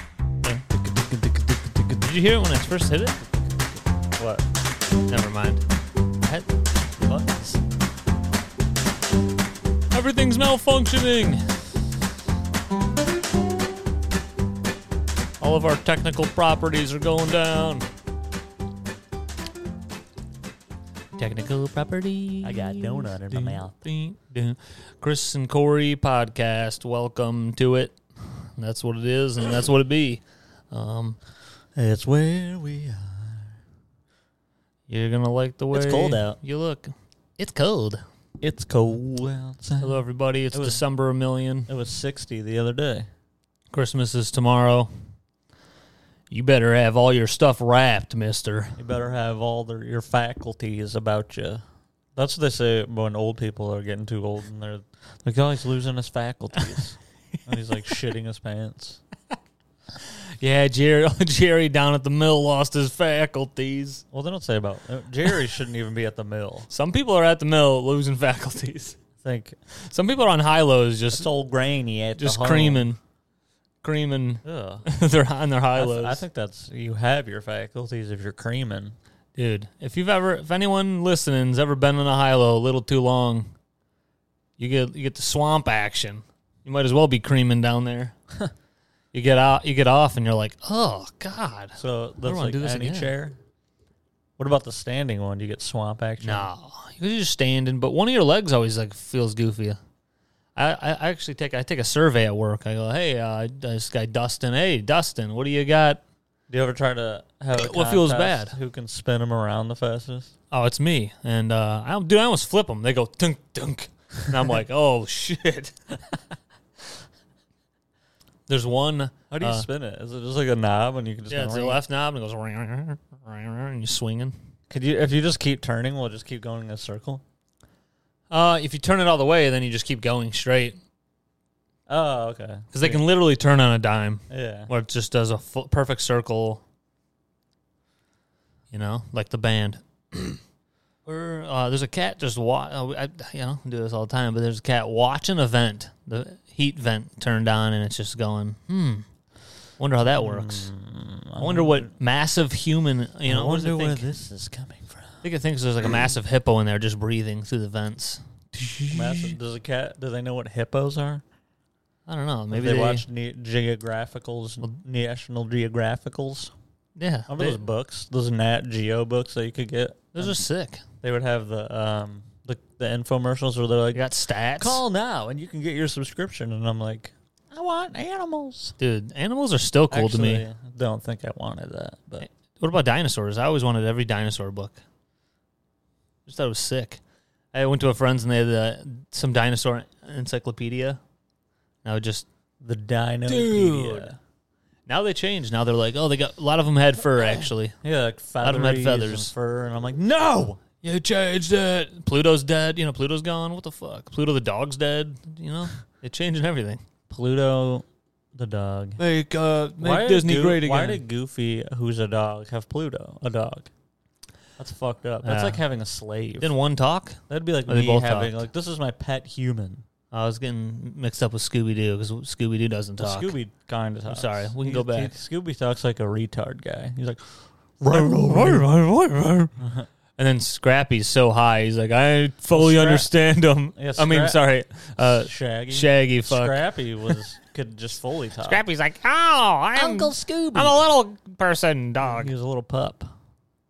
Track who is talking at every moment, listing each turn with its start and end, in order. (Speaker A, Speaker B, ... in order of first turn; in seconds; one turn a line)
Speaker A: 0.7-2.0
Speaker B: 2.0-3.2
Speaker A: 4.2-4.5
Speaker B: 5.1-5.6
Speaker A: 7.0-7.6
Speaker B: 9.9-11.4
Speaker B: 15.4-17.9
Speaker B: 21.2-31.2
Speaker A: 22.4-23.7
Speaker A: 31.8-33.5
Speaker B: 34.9-38.0
Speaker A: 35.7-36.4
Speaker A: 38.4-40.8
Speaker B: 39.8-41.7
Speaker A: 41.7-43.1
Speaker B: 43.7-44.9
Speaker B: 46.3-48.8
Speaker A: 48.8-51.6
Speaker A: 52.2-59.0
Speaker B: 60.4-64.0
Speaker A: 64.1-66.7
Speaker B: 66.7-69.0
Speaker A: 69.2-69.6
Speaker B: 69.8-71.3
Speaker A: 71.1-72.9
Speaker B: 72.2-73.0
Speaker B: 73.8-76.2
Speaker A: 74.4-74.9
Speaker A: 75.8-79.0
Speaker B: 79.4-83.5
Speaker B: 84.6-88.2
Speaker B: 89.1-93.1
Speaker A: 91.8-93.4
Speaker A: 94.4-96.5
Speaker B: 96.2-99.8
Speaker B: 100.6-106.0
Speaker A: 106.5-110.3
Speaker B: 107.5-108.5
Speaker B: 110.5-115.8
Speaker B: 118.5-119.7
Speaker A: 119.3-121.8
Speaker B: 121.3-124.3
Speaker A: 124.7-127.2
Speaker B: 128.3-130.8
Speaker A: 131.9-133.0
Speaker B: 132.7-136.6
Speaker A: 134.3-134.7
Speaker B: 138.7-140.4
Speaker B: 141.1-149.1
Speaker B: 149.8-150.7
Speaker A: 150.1-151.9
Speaker B: 151.4-154.0
Speaker A: 153.2-155.2
Speaker B: 155.2-159.3
Speaker A: 158.8-161.2
Speaker B: 162.1-163.0
Speaker A: 162.5-166.5
Speaker B: 167.0-167.6
Speaker A: 167.3-170.4
Speaker B: 170.1-170.8
Speaker A: 171.0-174.0
Speaker B: 173.9-174.8
Speaker A: 174.6-178.8
Speaker B: 178.8-180.5
Speaker A: 179.9-182.3
Speaker B: 182.2-184.8
Speaker B: 186.3-187.0
Speaker B: 187.5-191.0
Speaker B: 191.8-192.3
Speaker A: 192.6-194.2
Speaker B: 193.3-194.1
Speaker B: 194.9-197.8
Speaker A: 197.8-200.6
Speaker B: 198.4-199.3
Speaker B: 200.8-206.8
Speaker A: 207.1-209.0
Speaker B: 209.0-211.0
Speaker A: 209.8-213.7
Speaker A: 214.6-216.5
Speaker B: 215.2-215.6
Speaker B: 216.4-218.4
Speaker A: 217.3-219.8
Speaker B: 220.1-223.3
Speaker A: 223.0-227.2
Speaker B: 224.1-225.2
Speaker A: 227.8-228.7
Speaker B: 227.9-229.5
Speaker A: 229.6-229.9
Speaker B: 230.2-237.2
Speaker A: 232.5-233.1
Speaker A: 233.8-234.4
Speaker A: 235.0-238.6
Speaker B: 238.4-242.3
Speaker A: 239.8-240.8
Speaker A: 242.0-243.1